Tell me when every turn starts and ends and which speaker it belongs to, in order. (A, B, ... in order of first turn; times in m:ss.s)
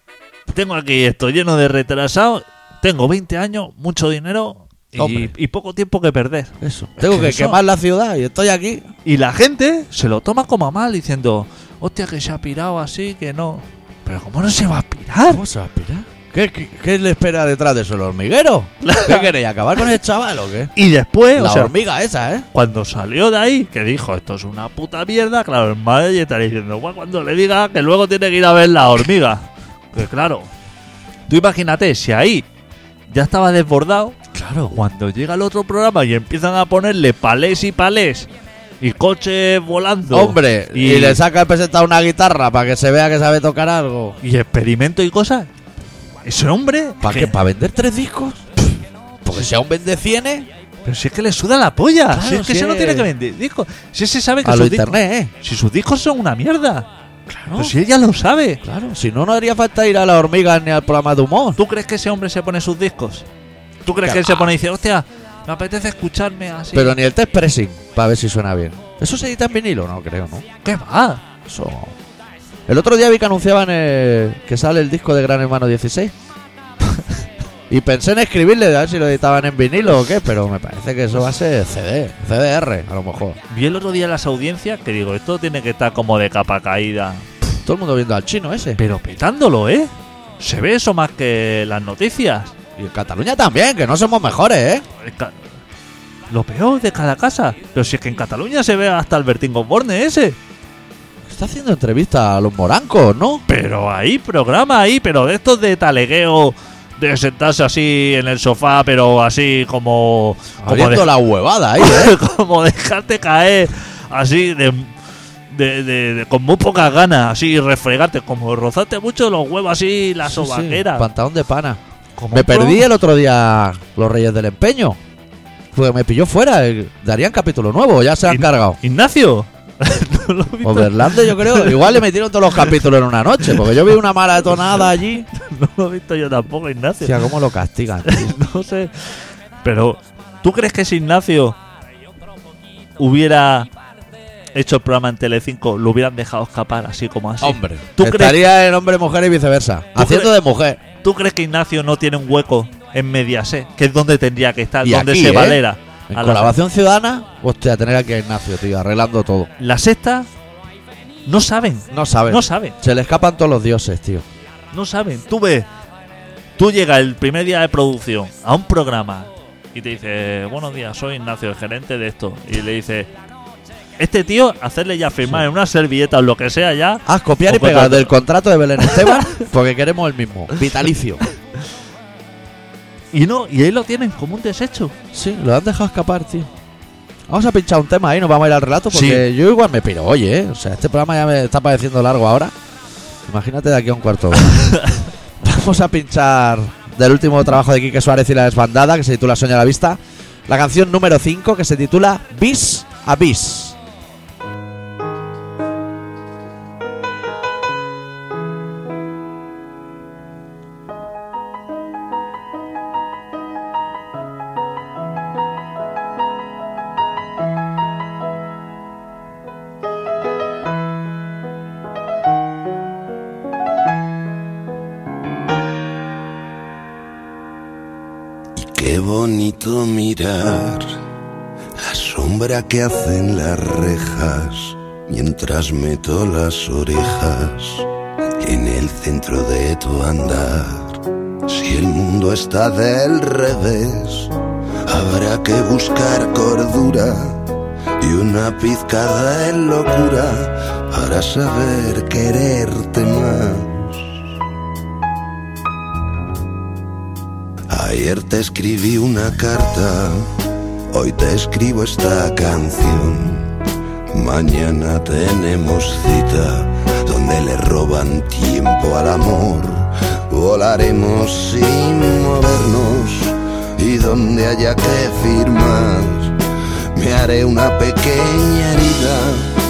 0:00.5-0:07.6 A
0:05.0-0:05.3 B
0:06.6-0:08.9 B
0:09.0-0:15.4 A
0:15.3-0:20.7 B
0:18.8-0:19.3 A
0:20.8-0:21.7 A
0:21.3-0:22.4 B
0:22.5-0:30.5 A
0:31.3-0:32.4 A
0:33.1-0:34.2 A
0:34.3-0:34.8 B
0:34.7-0:38.3 A
0:38.8-0:41.2 A
0:40.1-0:44.2 B
0:44.2-0:45.5 A
0:46.2-0:47.3 A
0:47.0-0:48.4 B
0:49.2-0:50.5 B
0:50.8-0:56.9 A
0:52.1-0:53.1 B
0:54.4-0:55.3 B
0:57.3-0:57.7 B
0:57.5-0:58.6 A
0:58.6-1:01.6 B
1:01.6-1:03.3 A
1:03.8-1:06.9 A
1:03.9-1:04.5 B
1:06.7-1:10.4 B
1:10.6-1:11.2 A
1:11.5-1:11.9 B
1:12.7-1:16.1 B
1:17.7-1:23.4 B
1:23.5-1:27.3 A
1:27.6-1:28.8 B
1:28.8-1:32.5 A
1:32.8-1:34.8 B
1:35.0-1:35.3 A
1:36.3-1:40.4 A
1:41.3-1:43.4 B
1:43.5-1:51.1 A
1:50.6-1:52.1 B
1:51.8-1:54.9 A
1:55.5-2:01.1 A
2:00.2-2:01.8 B
2:02.2-2:02.9 A
2:02.3-2:05.0 B
2:05.7-2:08.8 B
2:08.3-2:11.9 A
2:10.6-2:15.3 B
2:15.3-2:17.2 A
2:17.0-2:18.3 B
2:18.0-2:18.9 A
2:19.6-2:21.6 A
2:23.0-2:23.7 A
2:24.5-2:28.4 A
2:27.4-2:30.8 B
2:30.0-2:30.3 A
2:31.0-2:36.6 A
2:34.8-2:39.5 B
2:39.6-2:40.3 A
2:41.2-2:42.8 A
2:41.9-2:44.2 B
2:44.7-2:45.7 A
2:46.6-2:53.1 A
2:54.0-2:58.1 A
2:57.0-3:01.2 B
2:58.9-2:59.4 A
3:03.1-3:04.9 A
3:05.1-3:06.5 B
3:07.3-3:12.5 B
3:08.9-3:09.2 A
3:13.3-3:14.8 B
3:14.5-3:15.0 A
3:15.4-3:23.8 B
3:48.6-3:51.0 C
3:51.8-3:57.9 C
3:58.4-4:14.1 C
4:17.7-4:20.3 C
4:20.9-4:36.4 C
4:36.9-4:39.5 C